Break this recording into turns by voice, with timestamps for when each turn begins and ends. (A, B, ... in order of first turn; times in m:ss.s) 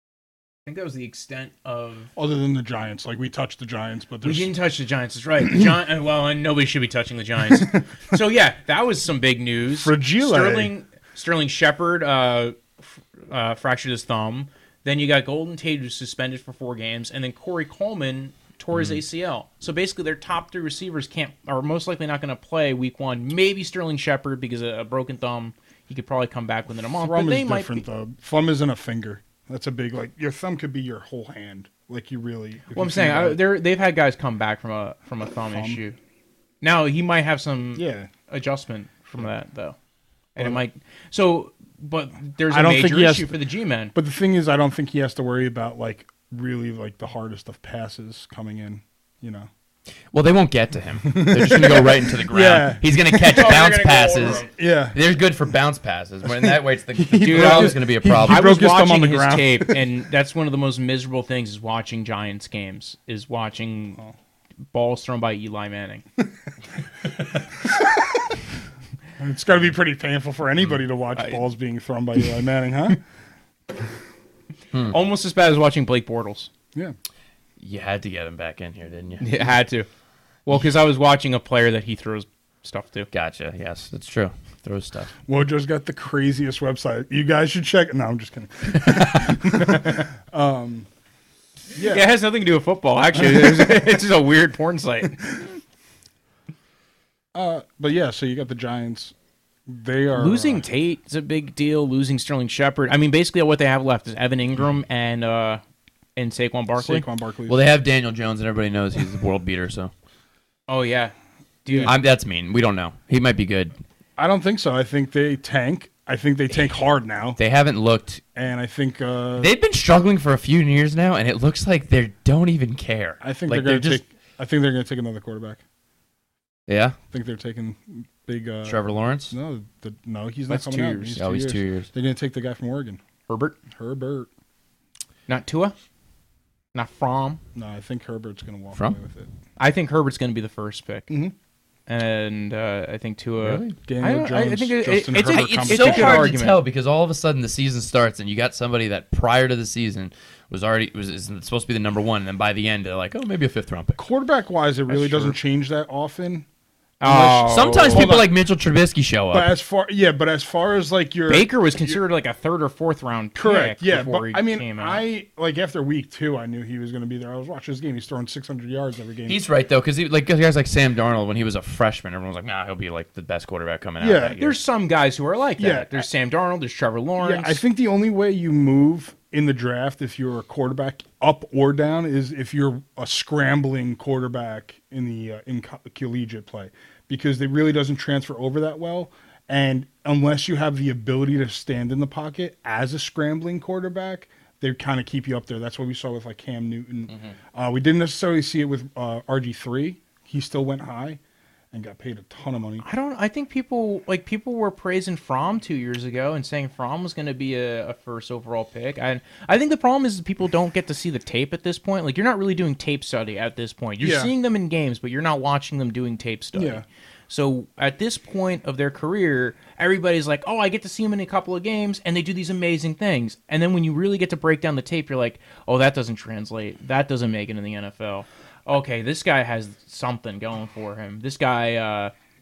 0:00.6-0:02.1 A
0:02.1-0:04.5 B
0:04.2-0:27.8 A
0:09.7-0:10.7 B
0:18.7-0:19.0 C
0:27.0-0:33.4 B
0:32.7-0:36.0 A
0:35.5-0:35.8 B
0:36.6-0:39.8 A
0:37.7-0:38.1 B
0:40.4-0:43.9 A
0:42.5-0:43.4 B
0:43.9-0:49.5 B
0:50.1-0:58.5 C
0:51.0-0:53.5 B
0:53.2-0:54.5 A
0:54.4-0:55.0 B
0:56.2-0:59.8 B
0:57.2-1:04.0 A
1:04.7-1:06.0 A
1:07.7-1:08.2 B
1:09.2-1:13.0 B
1:14.9-1:16.5 A
1:17.6-1:19.3 C
1:19.2-1:19.9 A
1:20.4-1:23.1 A
1:23.1-1:25.1 C
1:25.3-1:30.9 B
1:28.7-1:29.4 C
1:31.7-1:32.1 B
1:31.8-1:35.2 A
1:33.2-1:33.8 B
1:35.2-1:35.5 B
1:37.3-1:39.1 B
1:39.7-1:40.6 B
1:40.1-1:45.6 A
1:46.2-1:47.1 A
1:46.8-1:47.6 B
1:47.5-1:49.9 C
1:50.7-1:51.1 A
1:51.6-1:51.9 A
1:51.7-1:51.9 B
1:51.8-1:53.7 C
1:54.2-1:57.4 B
1:57.4-1:58.2 C
1:58.3-1:59.6 B
1:59.4-2:04.0 C
2:03.2-2:05.6 B
2:06.7-2:07.0 C
2:07.1-2:13.0 B
2:08.6-2:09.3 C
2:10.5-2:11.2 A
2:11.2-2:11.9 C
2:13.3-2:13.6 A
2:13.7-2:14.3 B
2:15.3-2:15.7 A
2:16.7-2:17.4 A
2:17.6-2:19.3 B
2:19.6-2:21.1 A
2:21.1-2:21.4 B
2:21.9-2:26.6 A
2:23.4-2:23.7 C
2:23.8-2:26.3 B
2:25.2-2:34.0 C
2:34.0-2:36.4 B
2:34.9-2:35.4 C
2:37.0-2:38.2 A
2:37.0-2:38.3 B
2:37.5-2:39.5 C
2:39.3-2:42.0 B
2:41.3-2:45.0 A
2:43.4-2:49.4 B
2:49.3-2:54.6 C
2:54.0-2:54.4 B
2:54.4-2:57.6 A
2:55.6-2:56.1 B
2:57.2-3:21.2 B
3:17.1-3:17.4 C
3:21.7-3:22.8 B
3:22.8-3:52.1 A
3:34.0-3:34.3 B
3:36.6-3:36.8 B